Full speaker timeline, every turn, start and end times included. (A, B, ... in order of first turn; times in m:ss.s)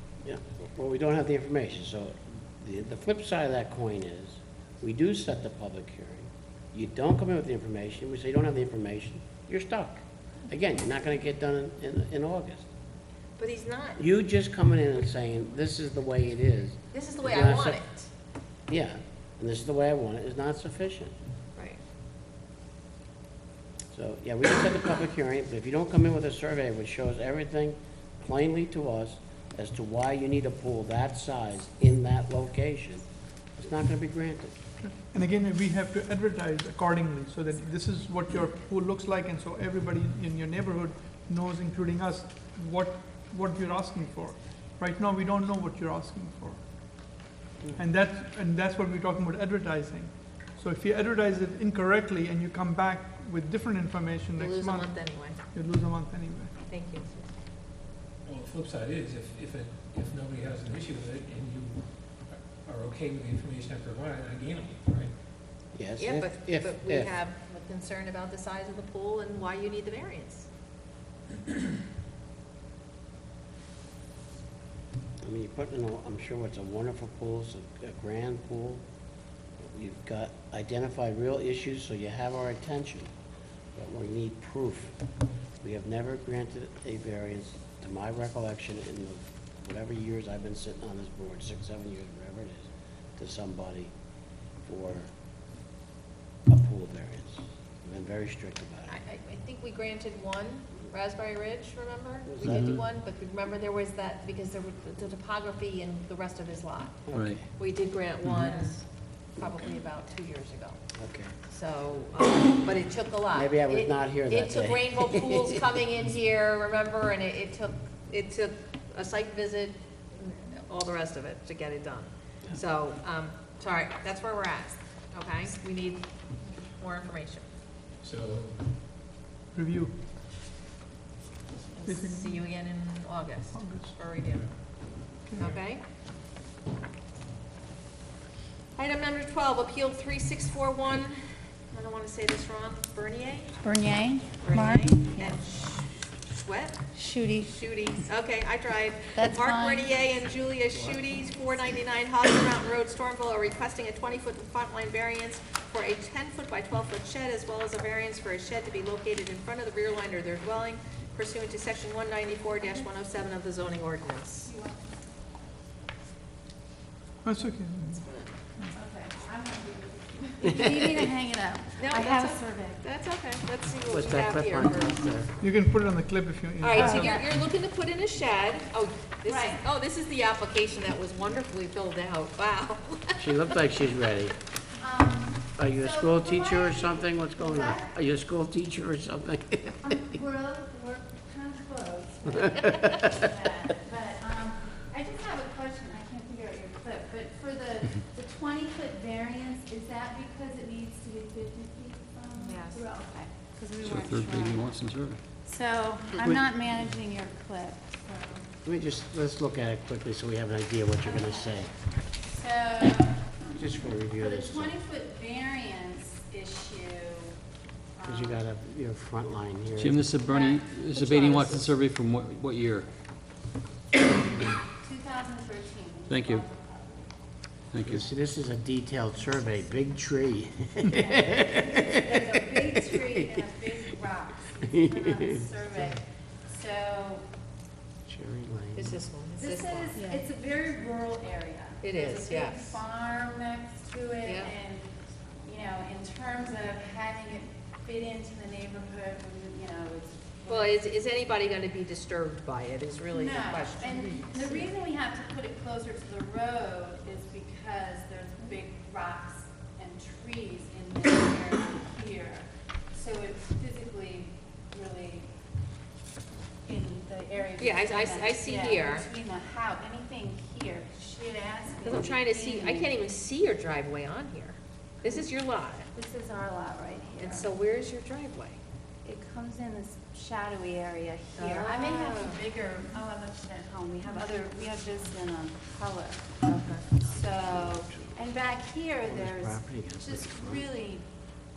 0:00.2-0:12.7 A
0:13.4-0:14.0 B
0:14.0-0:17.8 A
0:16.9-0:18.1 B
0:18.7-0:21.1 A
0:23.9-0:33.0 A
0:33.6-0:34.5 A
0:34.8-0:47.2 C
0:47.7-0:56.5 C
0:54.4-0:55.4 B
0:56.6-0:57.3 B
0:58.2-1:05.1 D
1:05.7-1:07.1 A
1:06.0-1:10.5 B
1:15.2-1:18.8 A
1:19.6-1:23.1 A
1:23.7-1:24.9 A
1:25.6-1:33.9 A
1:34.6-1:35.1 A
1:36.5-1:39.0 A
1:38.9-1:47.0 B
1:42.3-1:42.8 A
1:42.4-1:42.8 E
1:47.1-1:47.4 A
1:47.1-1:47.4 E
1:47.5-1:48.8 B
1:49.4-1:50.8 B
1:51.0-1:51.3 A
1:51.5-2:07.4 B
1:53.3-1:55.6 A
2:08.0-2:08.6 D
2:09.5-2:09.9 C
2:11.7-2:14.5 B
2:11.8-2:12.4 C
2:13.5-2:14.1 C
2:15.3-2:15.6 C
2:15.3-2:15.8 B
2:18.8-2:21.2 B
2:21.7-2:23.6 B
2:23.6-2:25.4 F
2:24.4-2:26.8 B
2:26.9-2:27.5 F
2:27.4-2:44.5 B
2:29.1-2:29.9 F
2:30.7-2:31.0 D
2:44.4-2:45.1 F
2:47.2-2:48.1 C
2:48.0-2:48.3 B
2:48.7-2:52.8 F
2:51.8-2:55.1 B
2:53.8-2:55.3 A
2:55.4-2:57.2 C
2:56.6-3:03.5 B
2:56.7-2:57.2 F
2:59.3-2:59.6 F
3:03.2-3:04.3 A
3:04.8-3:07.9 F
3:05.6-3:09.9 A
3:09.8-3:24.7 F
3:12.3-3:13.1 A
3:22.4-3:22.8 B
3:23.8-3:25.2 E
3:25.4-3:28.5 F
3:28.6-3:31.7 A
3:31.1-3:31.5 F
3:32.2-3:33.5 F
3:33.5-3:34.7 A
3:34.2-3:37.4 F
3:38.0-3:38.4 F
3:38.0-3:40.0 A
3:39.8-3:42.9 E
3:40.2-3:41.7 F
3:44.7-3:47.1 F
3:46.1-3:46.5 E
3:47.7-3:48.1 E
3:47.8-3:53.1 A
3:50.9-3:57.2 F
3:54.7-3:55.4 A
3:58.0-3:59.0 A
3:58.8-4:00.0 B
3:59.4-4:10.8 F
4:01.8-4:02.8 B
4:04.2-4:04.5 B
4:10.5-4:14.7 B
4:13.1-4:25.3 F
4:26.6-4:32.9 F
4:27.6-4:29.1 B
4:31.8-4:35.9 B
4:35.9-4:37.5 F
4:37.2-4:38.6 B
4:39.0-4:46.4 F
4:41.3-4:42.4 B
4:46.4-4:46.9 B
4:47.0-4:51.0 F
4:47.2-4:48.2 A
4:49.0-4:50.6 A